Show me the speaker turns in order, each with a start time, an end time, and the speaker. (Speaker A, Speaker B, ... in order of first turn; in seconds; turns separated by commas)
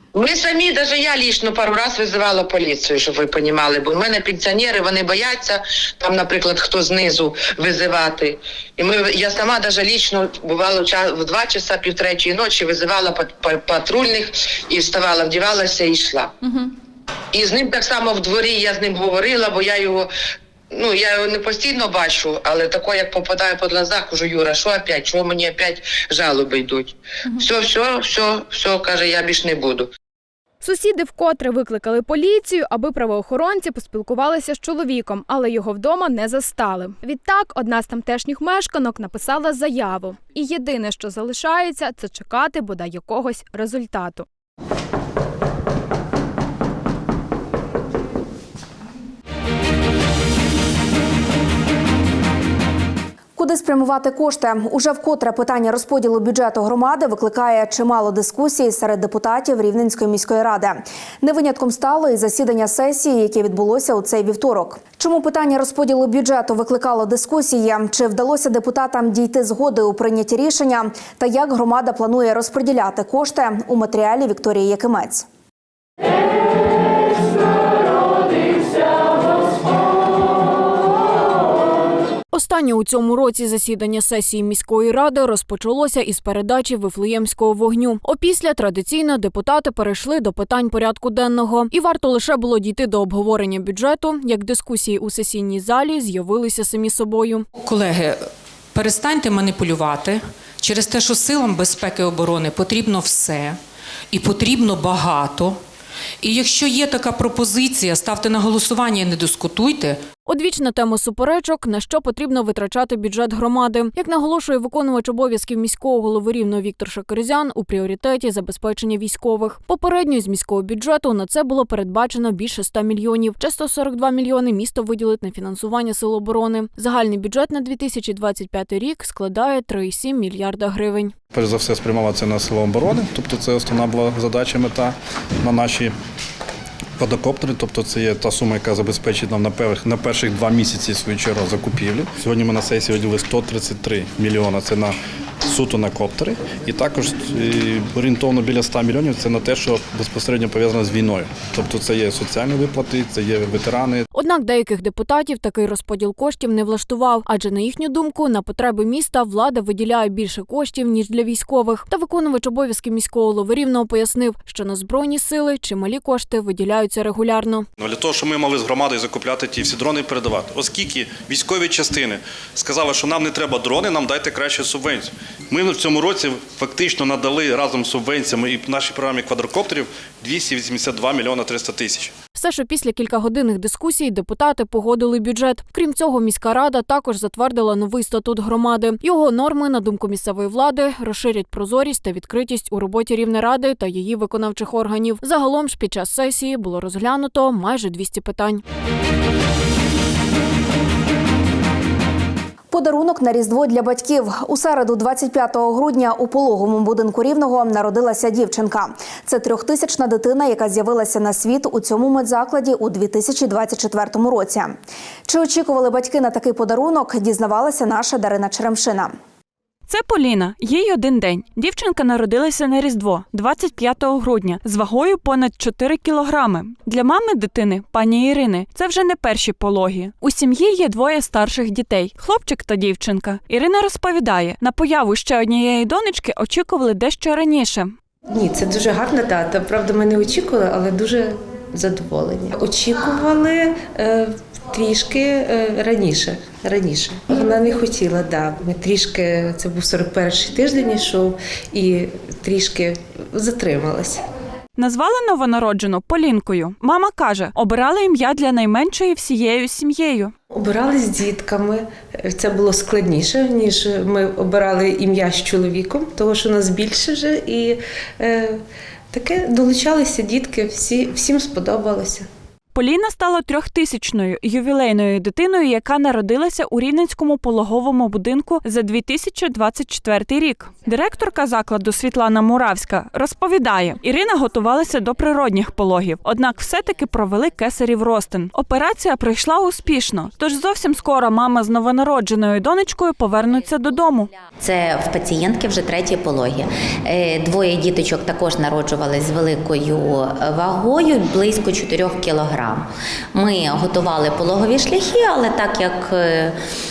Speaker A: 0.1-16.7, Speaker A: 17.3-20.1, Speaker A: 20.7-29.9, Speaker B: 30.6-44.2, Speaker C: 53.4-75.2, Speaker D: 82.3-97.5, Speaker E: 97.6-103.6, Speaker E: 104.1-105.6, Speaker E: 106.2-110.0, Speaker D: 110.2-131.1, Speaker F: 131.3-135.9, Speaker F: 137.0-154.1, Speaker D: 154.1-167.7, Speaker G: 167.8-182.1, Speaker D: 182.3-198.6, Speaker C: 202.7-214.8, Speaker C: 215.3-219.1, Speaker H: 219.9-237.9, Speaker I: 238.3-254.2, Speaker H: 254.8-260.3, Speaker I: 260.5-268.6, Speaker I: 269.1-272.3, Speaker H: 272.7-294.3, Speaker J: 294.6-306.6